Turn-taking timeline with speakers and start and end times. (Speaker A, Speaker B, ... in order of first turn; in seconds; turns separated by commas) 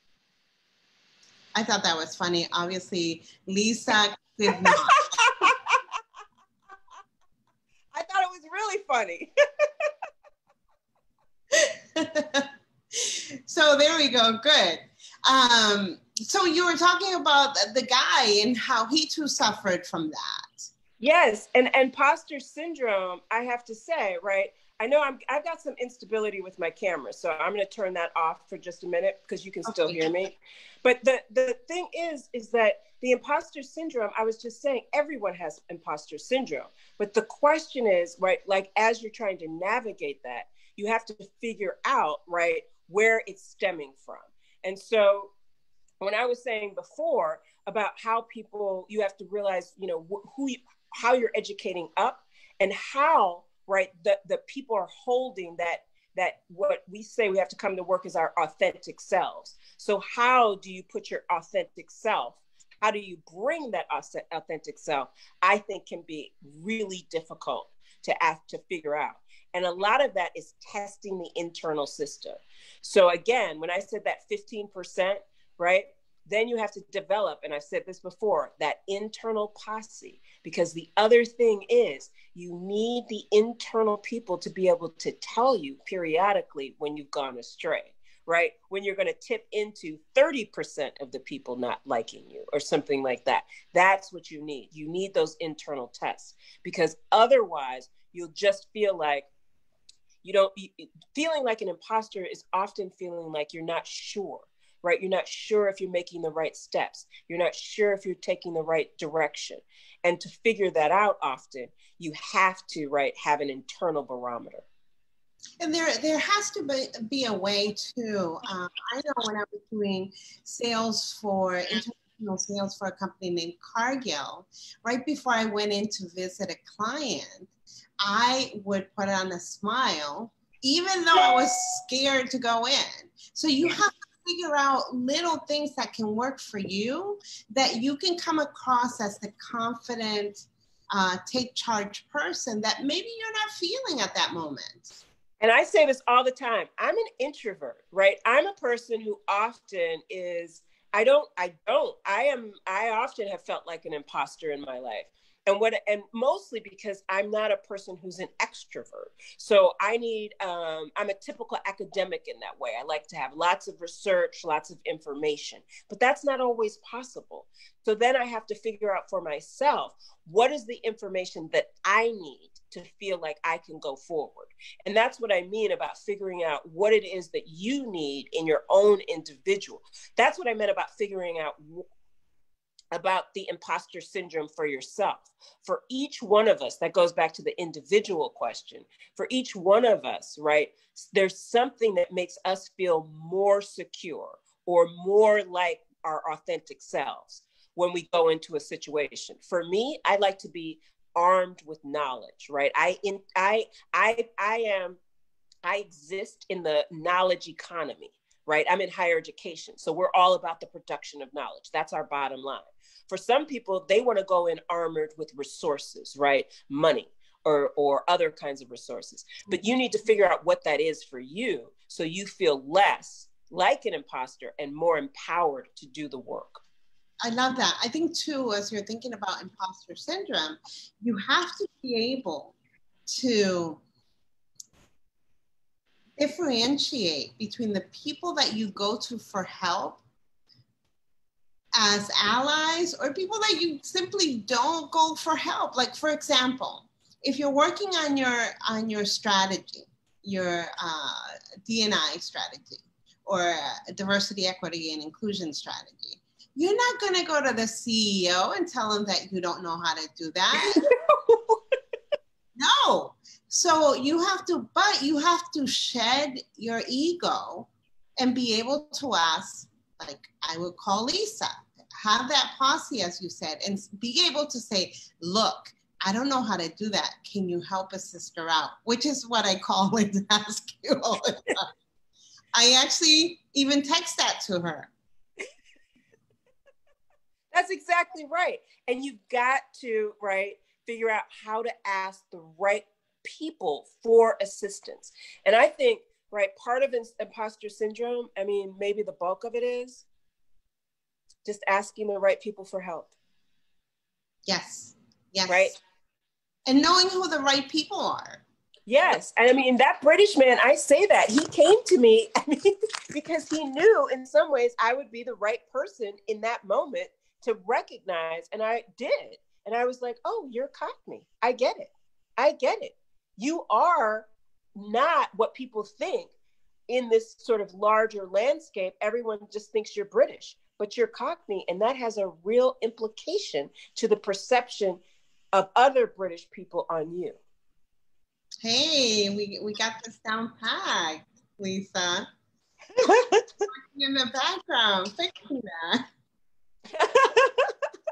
Speaker A: 1.5-5.0, Speaker B: 4.5-5.8, Speaker B: 7.9-9.9, Speaker A: 11.5-20.7, Speaker B: 21.0-45.3, Speaker A: 29.6-30.1, Speaker B: 46.0-99.3, Speaker B: 100.2-114.6, Speaker A: 115.6-127.5, Speaker A: 128.0-144.9, Speaker B: 145.4-181.8, Speaker B: 182.9-205.0, Speaker B: 205.6-226.6, Speaker A: 227.2-232.5, Speaker A: 233.1-233.8, Speaker A: 236.2-240.0, Speaker A: 241.8-260.8, Speaker B: 260.6-261.6, Speaker A: 262.6-281.7, Speaker A: 282.5-284.9, Speaker B: 287.5-300.1, Speaker B: 301.4-303.1, Speaker A: 304.5-305.7, Speaker B: 305.5-305.7, Speaker A: 306.7-308.4, Speaker B: 308.9-326.3, Speaker B: 326.9-335.0, Speaker B: 335.5-337.4, Speaker A: 338.6-342.3, Speaker B: 343.0-343.7, Speaker A: 343.7-346.0, Speaker B: 346.9-347.7